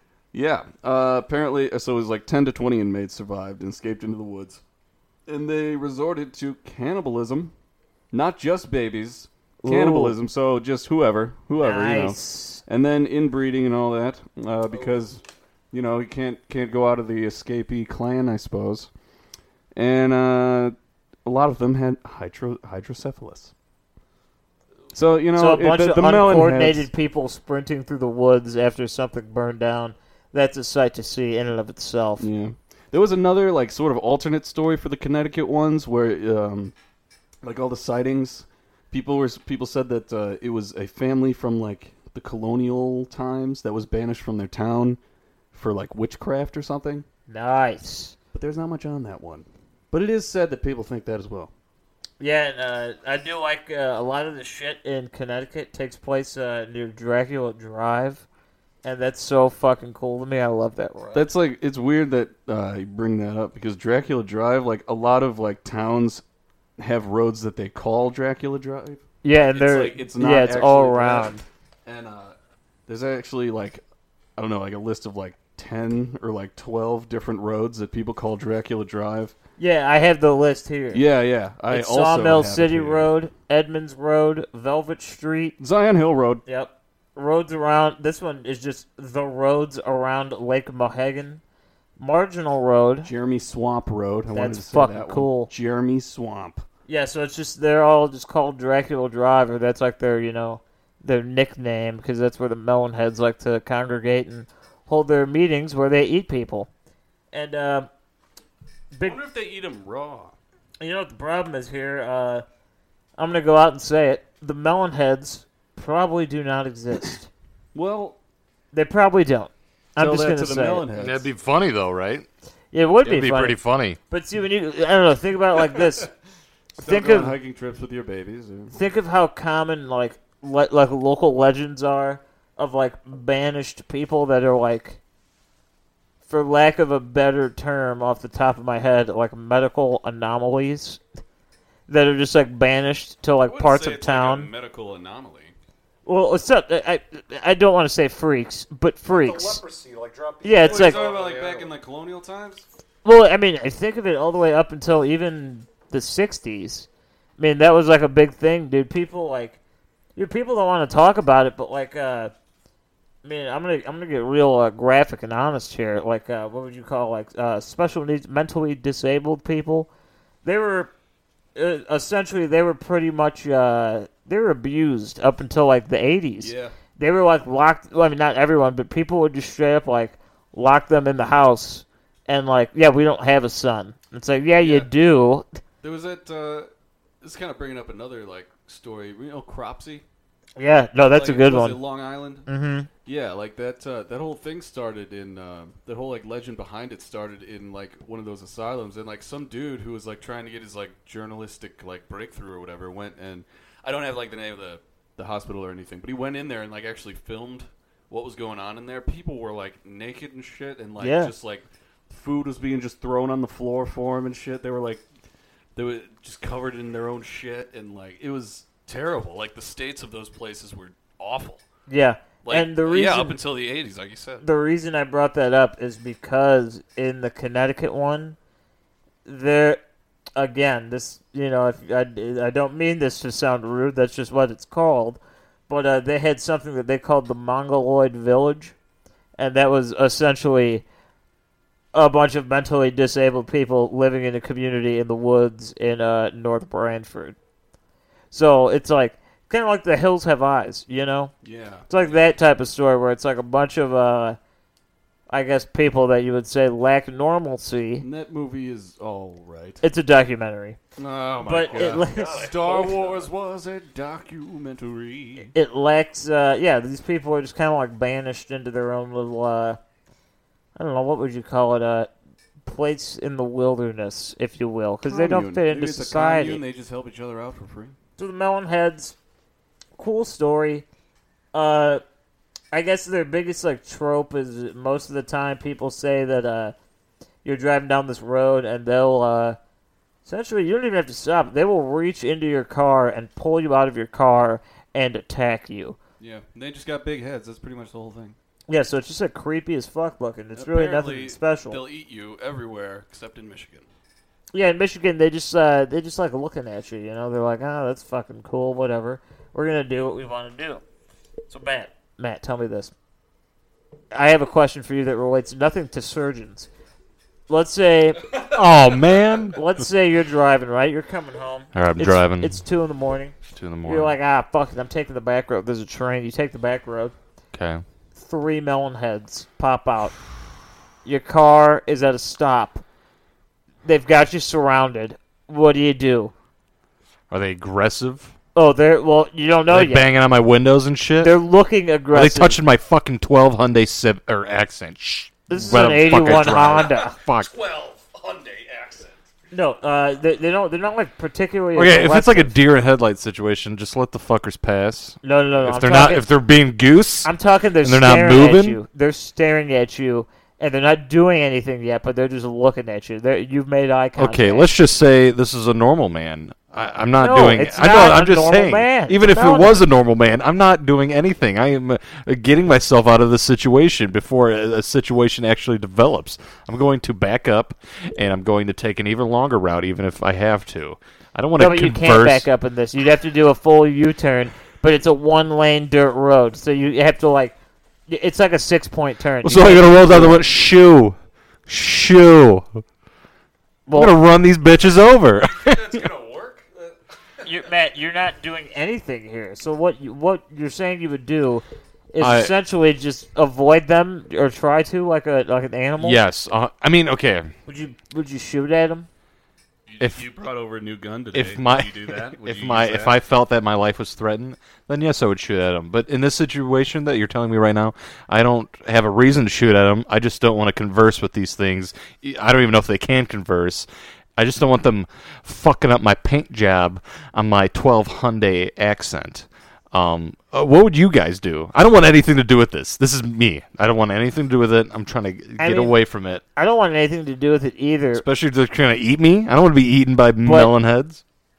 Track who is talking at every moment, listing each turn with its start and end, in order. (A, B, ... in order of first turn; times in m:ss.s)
0:00.3-0:04.6 A
0:05.3-0:07.5 A
0:08.1-0:18.9 A
0:09.6-0:10.2 B
0:11.6-0:12.6 B
0:19.7-0:23.5 A
0:24.9-0:26.9 A
0:25.4-0:32.3 B
0:32.2-0:36.7 A
0:37.4-0:45.0 A
0:45.5-0:47.0 A
0:47.3-0:48.1 B
0:48.3-0:51.5 A
0:52.2-0:58.2 B
0:58.8-1:01.3 B
1:01.1-1:06.2 A
1:06.8-1:09.0 A
1:09.2-1:11.4 B
1:09.5-1:12.4 A
1:12.9-1:13.8 A
1:14.4-1:19.3 A
1:19.6-1:21.0 B
1:20.9-1:23.1 A
1:21.7-1:25.6 B
1:25.6-1:26.4 A
1:26.4-1:31.4 B
1:32.0-1:33.1 B
1:33.0-1:36.6 A
1:34.3-1:35.5 B
1:36.9-1:46.7 B
1:47.3-1:47.9 B
1:48.9-1:49.2 B
1:49.0-1:50.4 A
1:50.8-1:52.4 B
1:53.2-1:57.3 B
1:57.7-1:58.2 A
1:58.7-2:00.8 B
2:00.0-2:01.3 A
2:00.9-2:02.2 C
2:02.7-2:03.6 B
2:03.0-2:04.0 C
2:04.1-2:06.1 B
2:06.8-2:08.8 A
2:06.8-2:07.4 B
2:08.7-2:15.0 B
2:16.2-2:21.0 B
2:21.9-2:24.5 B
2:23.4-2:25.5 A
2:26.0-2:29.6 B
2:29.1-2:31.7 C
2:30.4-2:31.0 B
2:30.6-2:32.6 A
2:33.0-2:36.9 B
2:37.4-2:39.6 B
2:40.2-2:42.3 B
2:43.2-2:49.9 B
2:50.4-2:50.9 B
2:51.5-3:05.6 B
2:56.4-2:56.7 A
3:04.6-3:04.9 A
3:05.8-3:06.7 A
3:07.2-3:10.0 A
3:10.6-3:11.8 B
3:11.1-3:12.5 A
3:12.4-3:12.9 B
3:13.0-3:35.0 A
3:31.0-3:31.3 B
3:35.8-3:41.6 A
3:41.9-3:43.4 B
3:42.4-3:44.4 A
3:44.4-3:48.4 B
3:49.2-3:49.8 B
3:50.4-3:58.7 B
3:59.4-4:00.8 B
4:01.9-4:07.4 B
4:08.3-4:11.3 B
4:11.4-4:12.2 A
4:11.9-4:14.4 B
4:15.3-4:18.0 B
4:18.0-4:19.8 A
4:19.8-4:20.8 B
4:21.0-4:25.5 A
4:21.4-4:23.1 B
4:21.5-4:23.2 C
4:25.5-4:29.8 B
4:30.8-4:32.1 B
4:32.6-4:36.6 B
4:35.1-4:37.9 A
4:38.2-4:39.2 B
4:40.0-4:40.8 B
4:41.5-4:42.0 B
4:42.7-4:46.7 B
4:47.4-4:49.6 B
4:50.2-4:56.0 B
4:56.2-4:58.4 A
4:58.7-5:01.8 B
5:00.6-5:03.9 A
5:04.5-5:10.8 B
5:11.5-5:12.9 B
5:14.1-5:16.7 B
5:17.5-5:18.2 B
5:18.4-5:19.6 C
5:19.5-5:27.1 B
5:21.7-5:22.6 C
5:23.5-5:24.2 C
5:27.5-5:27.8 C
5:28.1-5:30.2 B
5:31.0-5:32.8 B
5:33.8-5:36.3 B
5:37.3-5:38.3 C
5:38.5-5:40.0 B
5:39.7-5:41.4 C
5:41.2-5:42.6 B
5:42.1-5:47.5 C
5:45.5-5:47.2 B
5:45.7-5:49.2 A
5:49.5-5:52.6 B
5:51.7-5:58.8 C
5:55.2-5:56.2 B
5:57.2-6:04.7 B
6:04.2-6:22.5 C
6:07.2-6:09.8 B
6:21.6-6:27.6 B
6:28.1-6:30.4 B
6:29.4-6:31.2 C
6:31.7-6:32.8 C
6:33.9-6:34.2 B
6:33.9-6:36.0 C
6:35.4-6:37.0 A
6:37.4-6:46.2 B
6:42.2-6:42.5 C
6:46.0-6:47.5 C
6:47.7-6:49.1 B
6:49.9-6:53.2 A
6:50.0-6:50.2 C
6:51.3-7:16.4 C
7:15.6-7:16.0 B
7:16.6-7:18.2 B
7:18.1-7:21.2 C
7:20.4-7:20.7 B